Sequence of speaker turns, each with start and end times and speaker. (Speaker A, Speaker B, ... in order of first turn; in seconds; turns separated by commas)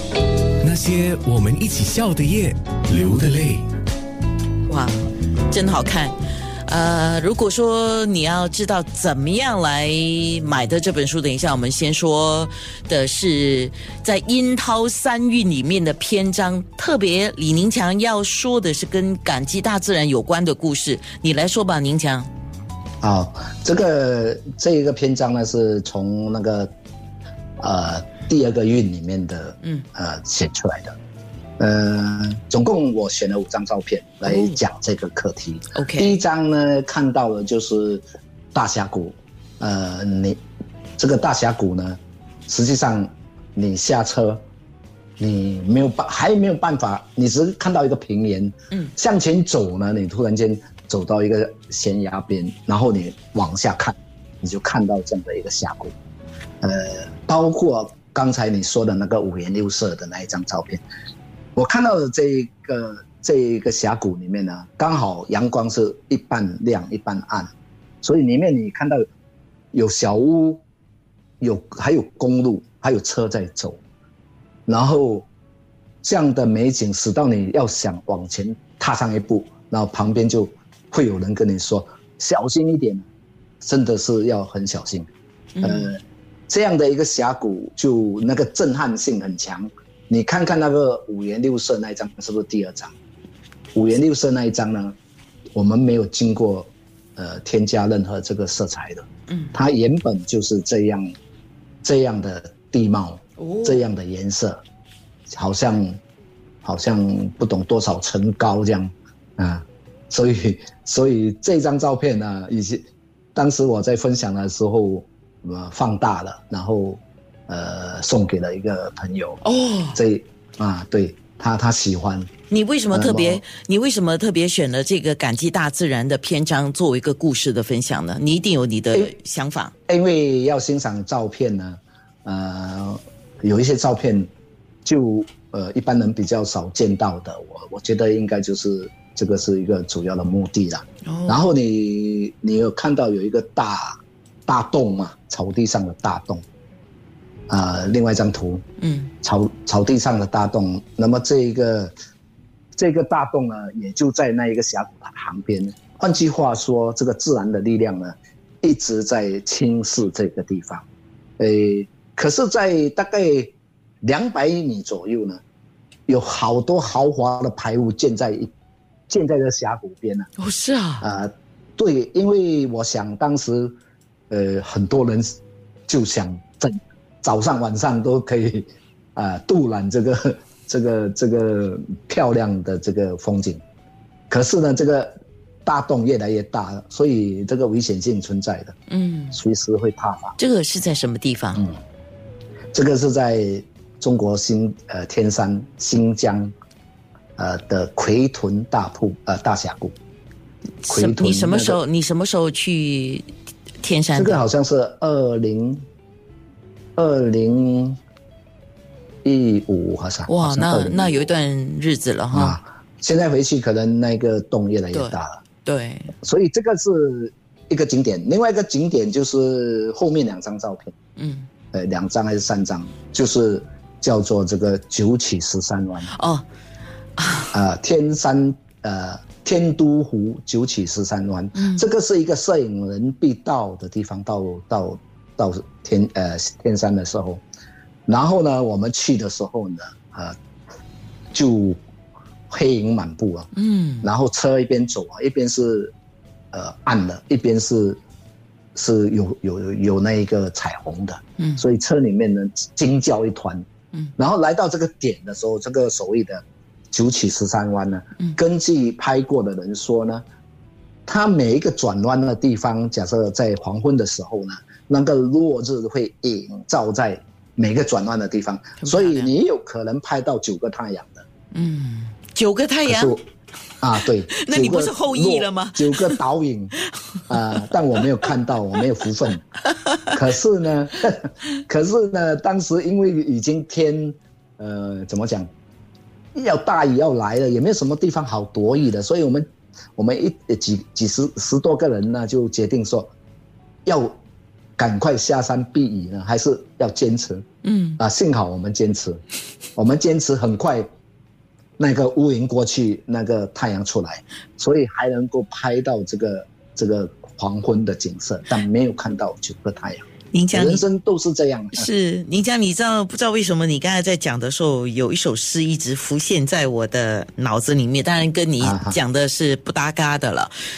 Speaker A: 0.6-3.7, Speaker B: 4.7-22.3, Speaker C: 23.0-26.7, Speaker C: 27.6-31.0, Speaker C: 31.6-40.4, Speaker B: 34.2-34.6, Speaker B: 35.8-36.2, Speaker C: 41.0-44.4, Speaker C: 45.2-56.0, Speaker C: 56.6-60.8, Speaker C: 61.5-69.1, Speaker C: 69.7-70.6, Speaker C: 71.4-73.8, Speaker C: 74.7-75.3, Speaker C: 76.0-83.1, Speaker C: 83.6-85.1, Speaker B: 85.6-85.9, Speaker C: 85.6-92.9, Speaker C: 93.8-95.0, Speaker C: 95.5-101.1, Speaker B: 99.3-99.6, Speaker C: 101.8-104.6, Speaker B: 103.4-103.9, Speaker C: 105.3-106.0, Speaker C: 106.6-119.4, Speaker B: 119.4-120.0, Speaker C: 119.9-122.3, Speaker B: 122.5-129.7, Speaker C: 122.9-123.4, Speaker C: 129.9-134.3, Speaker C: 134.8-146.4, Speaker B: 141.1-141.4, Speaker C: 147.5-148.7, Speaker B: 148.8-149.1, Speaker C: 149.2-151.9, Speaker C: 152.8-160.9, Speaker C: 161.4-165.4, Speaker C: 166.1-168.5, Speaker C: 169.1-170.3, Speaker B: 170.4-171.1, Speaker C: 171.0-173.8, Speaker C: 174.3-175.4, Speaker C: 175.9-183.6, Speaker C: 184.3-188.8, Speaker B: 188.9-189.4, Speaker C: 189.3-190.4, Speaker B: 190.4-191.6, Speaker C: 191.6-191.8, Speaker C: 192.7-196.5, Speaker C: 197.4-199.9, Speaker B: 200.8-203.3, Speaker C: 200.9-201.8, Speaker B: 203.8-204.4, Speaker C: 204.1-205.9, Speaker C: 207.0-208.0, Speaker C: 209.2-211.3, Speaker B: 210.3-212.6, Speaker C: 212.3-215.4, Speaker B: 214.9-216.2, Speaker C: 216.2-220.9, Speaker B: 221.2-221.5, Speaker C: 221.7-226.1, Speaker B: 226.1-226.5, Speaker B: 227.2-227.6, Speaker C: 227.5-237.4, Speaker B: 231.6-231.9, Speaker C: 238.1-240.4, Speaker C: 241.3-241.8, Speaker C: 242.5-245.9, Speaker B: 243.5-244.1, Speaker C: 246.5-248.0, Speaker C: 248.8-253.7, Speaker B: 251.4-251.7, Speaker C: 254.2-260.2, Speaker C: 261.1-271.2, Speaker B: 268.8-269.3, Speaker B: 271.5-273.2, Speaker C: 272.9-273.2, Speaker C: 273.8-276.7, Speaker B: 274.0-276.2, Speaker B: 276.9-278.0, Speaker C: 277.3-279.4, Speaker B: 279.8-280.1, Speaker C: 280.1-285.5, Speaker C: 286.3-293.1, Speaker C: 293.9-294.1, Speaker C: 294.8-297.5, Speaker B: 297.6-298.0, Speaker C: 298.0-299.2, Speaker C: 299.8-300.9, Speaker C: 301.8-311.9, Speaker B: 310.3-310.8, Speaker B: 311.7-320.5, Speaker C: 318.6-319.0